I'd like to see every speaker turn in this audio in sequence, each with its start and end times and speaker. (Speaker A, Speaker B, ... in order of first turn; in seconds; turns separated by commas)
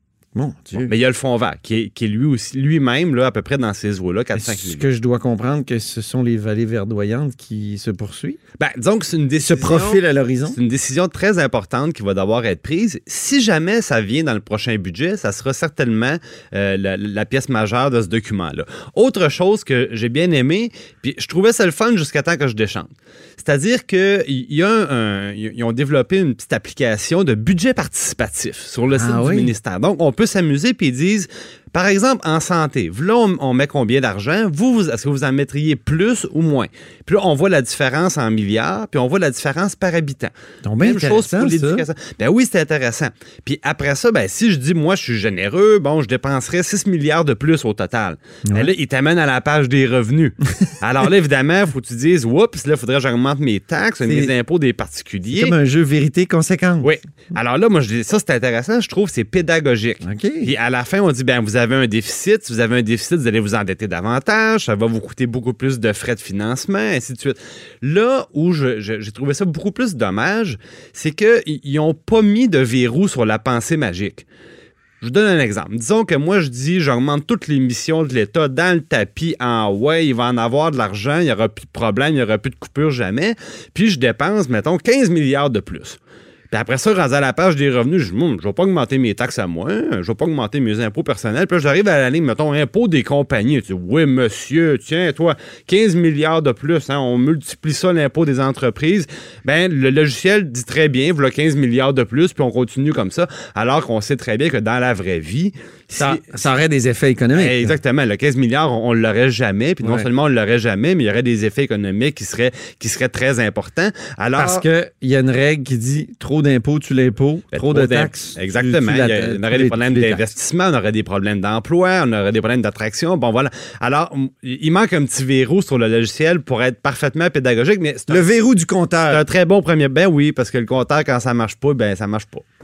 Speaker A: 0.3-0.9, Speaker B: 0.7-4.8, Speaker A: 4.3-8.4, Speaker B: 8.6-55.5, Speaker A: 9.4-10.6, Speaker A: 28.9-29.5, Speaker A: 40.6-41.9, Speaker A: 48.4-48.7, Speaker A: 54.0-54.3, Speaker A: 55.3-56.9, Speaker B: 56.8-74.2, Speaker A: 60.0-60.5, Speaker B: 75.0-86.0, Speaker B: 86.5-106.4, Speaker A: 106.0-107.8, Speaker B: 107.3-114.7, Speaker A: 109.8-110.1, Speaker A: 114.3-120.2, Speaker B: 117.5-128.3, Speaker A: 128.1-129.2, Speaker B: 129.1-132.4